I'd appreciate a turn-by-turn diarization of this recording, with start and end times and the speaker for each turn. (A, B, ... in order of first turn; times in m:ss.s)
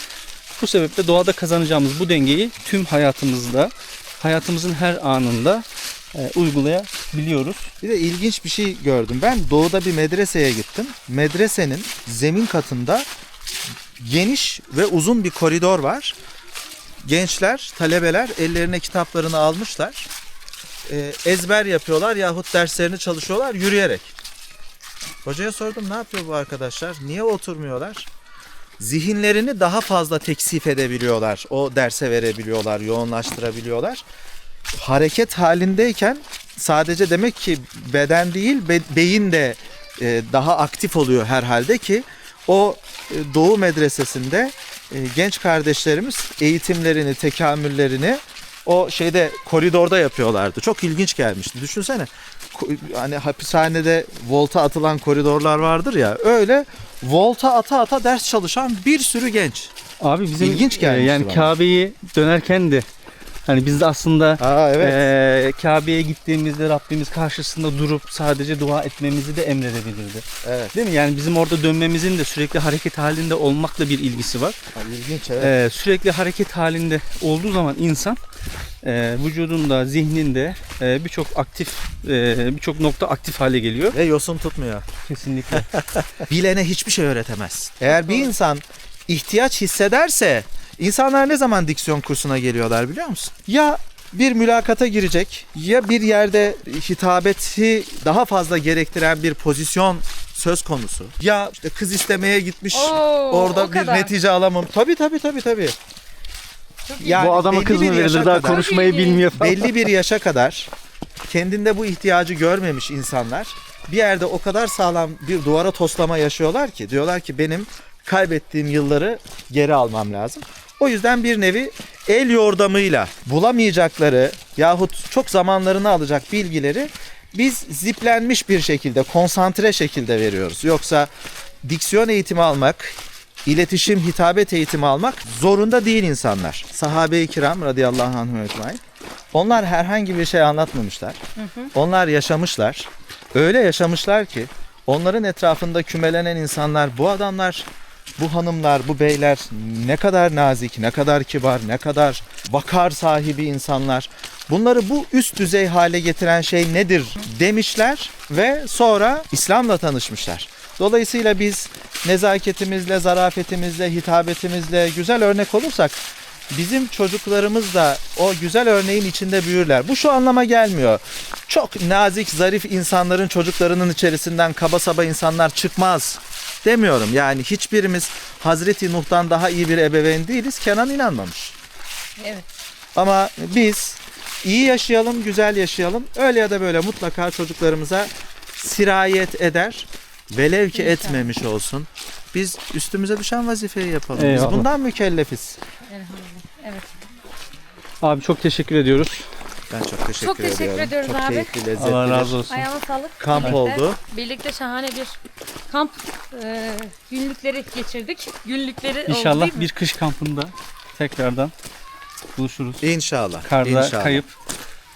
0:00.6-0:07.7 A
0:07.8-0:13.1 B
0:14.0-0:16.2 B
0:17.0-0:20.1 B
0:20.9-0:24.1 B
0:25.2-0:28.1 B
0:28.8-0:34.0 B
0:34.7-0:59.7 B
1:00.0-1:02.9 A
1:00.4-1:01.5 B
1:03.5-1:14.6 A
1:04.4-1:05.1 B
1:10.4-1:10.8 B
1:14.8-1:15.5 B
1:15.4-1:18.2 A
1:18.8-1:24.0 A
1:23.9-1:24.9 B
1:25.1-1:25.8 A
1:25.6-1:45.8 B
1:27.9-1:28.3 C
1:42.7-1:44.1 C
1:46.9-1:47.3 C
1:47.0-1:48.8 B
1:47.2-1:49.7 A
1:48.3-1:49.3 C
1:49.3-1:50.7 B
1:51.3-2:11.1 B
2:11.6-2:18.8 B
2:19.3-2:21.2 B
2:21.4-2:21.7 C
2:21.7-3:01.6 B
3:02.2-3:02.5 C
3:03.0-3:15.6 B
3:10.7-3:11.3 C
3:14.2-3:14.7 A
3:15.9-3:17.0 C
3:18.0-3:19.3 A
3:19.7-3:22.4 B
3:20.2-3:21.5 C
3:21.8-3:22.7 A
3:22.5-3:29.7 C
3:23.2-3:24.0 B
3:23.4-3:23.6 A
3:29.1-3:31.5 A
3:32.4-3:32.9 A
3:32.8-3:34.2 B
3:33.4-3:34.3 A